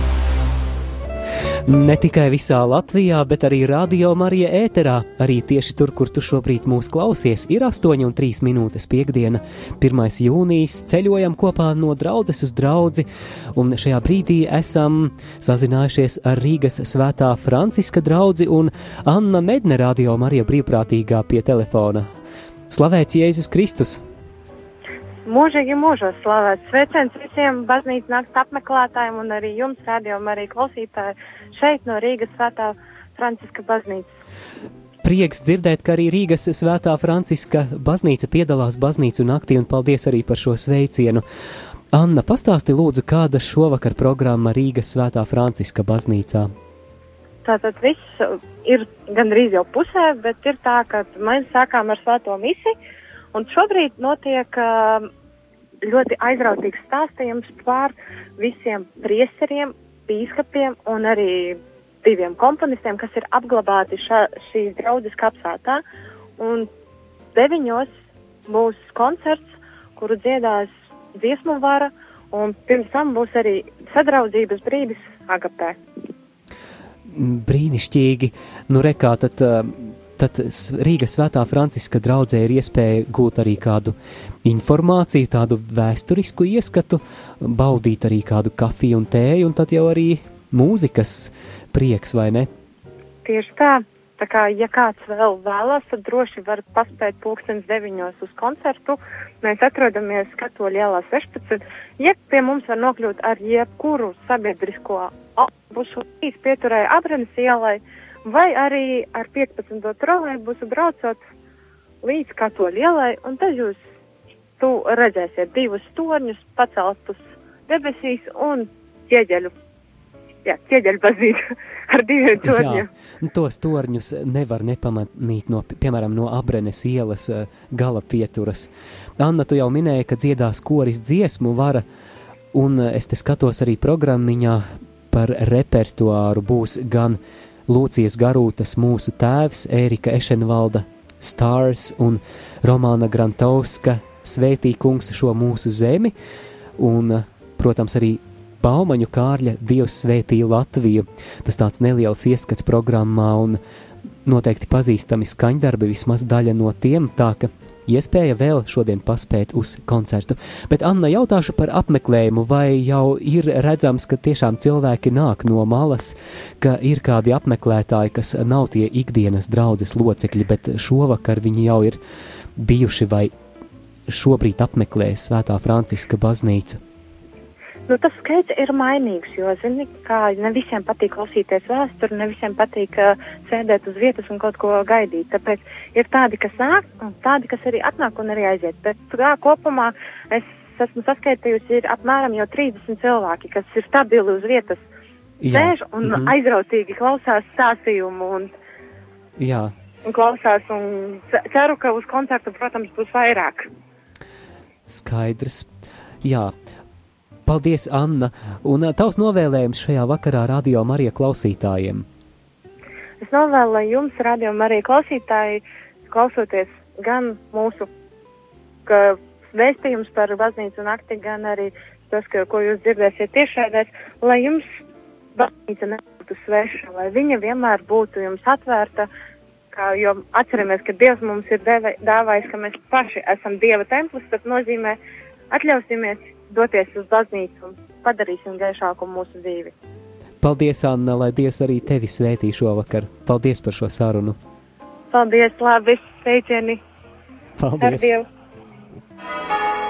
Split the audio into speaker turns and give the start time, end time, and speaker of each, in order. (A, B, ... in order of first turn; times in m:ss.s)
0:01.7-0:13.0 A
0:13.6-0:22.1 A
0:22.7-0:24.0 A
0:25.2-0:34.1 B
0:35.0-0:41.2 A
0:41.9-0:46.5 A
0:47.4-0:52.8 B
0:53.3-0:55.1 B
0:55.8-1:05.8 B
1:06.4-1:06.7 B
1:07.3-1:07.9 B
1:08.5-1:15.8 B
1:17.1-1:23.9 A
1:24.4-1:32.5 A
1:33.2-1:51.2 B
1:52.0-1:53.8 B
1:54.6-1:59.5 B
2:00.4-2:02.9 B
2:02.4-2:11.8 A
2:12.5-2:26.1 A
2:26.8-2:33.6 A
2:34.3-2:52.0 A
2:52.6-2:53.3 A
2:54.1-2:56.8 A
2:57.9-3:14.8 B
3:15.4-3:16.3 A
3:15.5-3:18.5 B
3:19.4-3:19.7 A
3:20.1-3:23.7 B
3:24.9-3:25.7 A
3:26.2-3:26.5 A
3:27.5-3:32.1 A
3:33.2-3:37.9 B
3:38.9-3:44.6 B
3:45.4-3:49.1 B
3:49.7-3:55.0 B
3:55.5-3:59.7 B
4:00.4-4:04.4 A
4:05.1-4:06.8 B
4:07.6-4:08.1 A
4:07.8-4:08.2 B